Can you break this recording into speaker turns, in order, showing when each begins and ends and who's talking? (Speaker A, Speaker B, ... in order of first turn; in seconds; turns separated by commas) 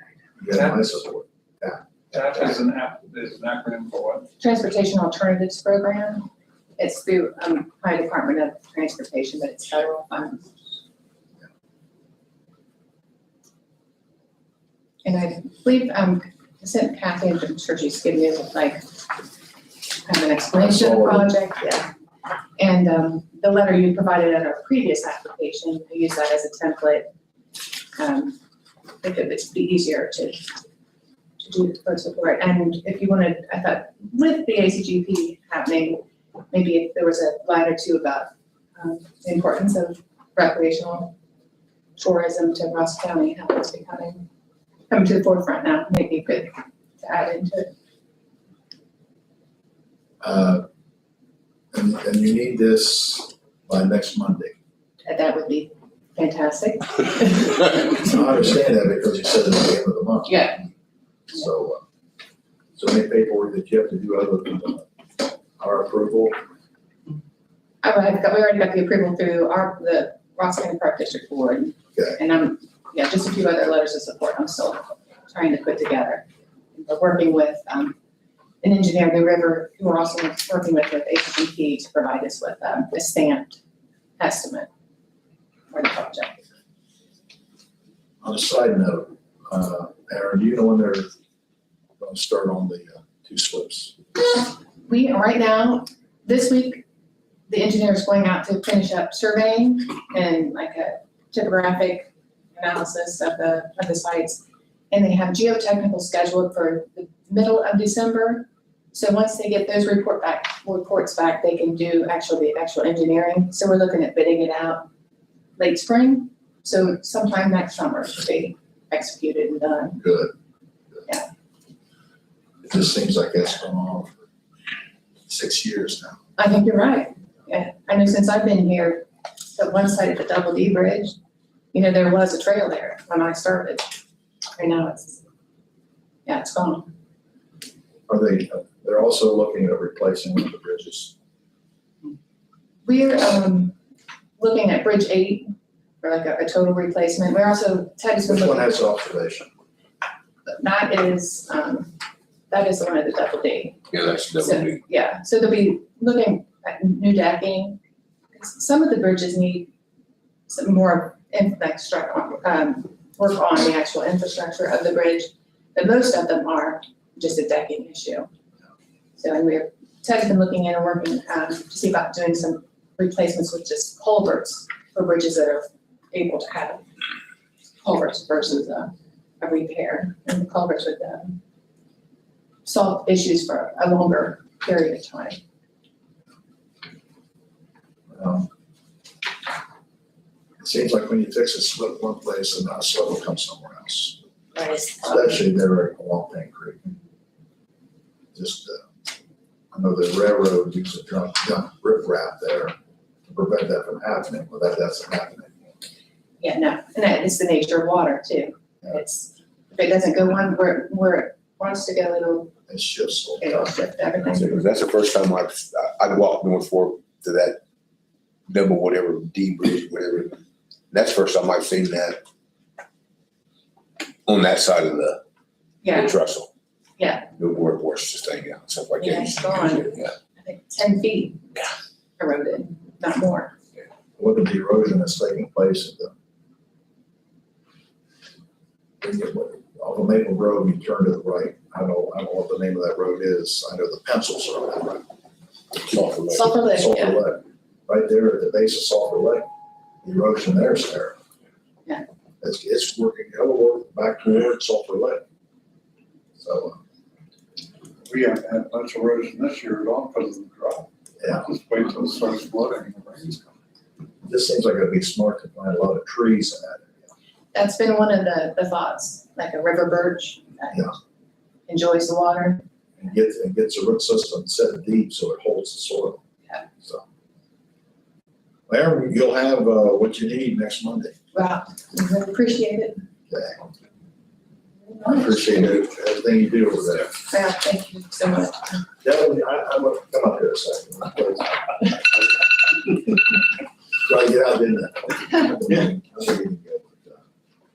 Speaker A: 0.4-1.8, Speaker B: 2.1-4.3, Speaker C: 4.4-6.3, Speaker C: 6.8-10.4, Speaker C: 15.0-18.9, Speaker C: 20.0-21.9, Speaker A: 20.5-21.3, Speaker C: 22.6-27.1, Speaker C: 27.9-28.4, Speaker C: 29.0-30.4, Speaker C: 31.4-41.1, Speaker C: 42.0-44.2, Speaker C: 44.9-47.7, Speaker A: 50.2-50.6, Speaker A: 51.7-54.5, Speaker C: 55.0-58.0, Speaker A: 58.0-60.5, Speaker C: 60.2-60.6, Speaker A: 61.3-61.8, Speaker A: 62.8-64.8, Speaker A: 65.6-66.4, Speaker C: 67.8-77.9, Speaker C: 78.6-83.6, Speaker C: 84.2-84.7, Speaker C: 85.7-86.4, Speaker A: 88.2-91.1, Speaker A: 92.0-93.9, Speaker C: 94.3-96.8, Speaker C: 97.5-114.9, Speaker C: 115.6-120.0, Speaker A: 120.0-120.3, Speaker A: 122.6-124.2, Speaker A: 125.3-126.2, Speaker C: 126.4-131.1, Speaker C: 131.7-133.9, Speaker C: 134.6-135.2, Speaker C: 136.2-136.9, Speaker A: 138.1-141.1, Speaker C: 142.8-143.8, Speaker C: 144.4-148.7, Speaker A: 148.3-149.5, Speaker C: 150.5-151.9, Speaker C: 152.5-157.8, Speaker D: 153.9-154.8, Speaker C: 158.3-159.7, Speaker C: 160.5-168.3, Speaker C: 169.2-176.8, Speaker C: 177.8-181.4, Speaker C: 182.6-185.4, Speaker A: 188.1-188.5, Speaker A: 190.6-194.2, Speaker C: 194.5-195.4, Speaker A: 195.0-196.8, Speaker A: 198.3-198.9, Speaker A: 199.7-202.7, Speaker A: 203.3-205.8, Speaker C: 206.4-212.5, Speaker A: 212.7-213.8, Speaker C: 213.4-214.6, Speaker D: 214.3-217.6, Speaker D: 218.5-220.4, Speaker D: 220.9-222.2, Speaker D: 224.2-225.2, Speaker C: 225.8-226.1, Speaker D: 225.8-226.5, Speaker C: 227.0-227.3, Speaker D: 227.4-230.1, Speaker C: 229.0-231.6, Speaker C: 232.2-233.5, Speaker A: 234.2-236.1, Speaker A: 239.0-245.1, Speaker D: 245.8-246.4, Speaker C: 246.3-247.2, Speaker A: 246.4-249.5, Speaker A: 250.0-251.1, Speaker A: 252.4-255.2, Speaker A: 256.4-256.8, Speaker B: 258.1-263.5, Speaker A: 261.2-261.4, Speaker A: 264.2-267.1, Speaker C: 267.5-270.9, Speaker C: 271.7-272.6, Speaker A: 273.0-276.2, Speaker A: 278.7-281.1, Speaker C: 281.3-283.0, Speaker A: 283.3-283.6, Speaker C: 284.9-285.5, Speaker A: 285.0-287.1, Speaker C: 287.3-288.8, Speaker A: 289.0-292.0, Speaker A: 294.1-297.2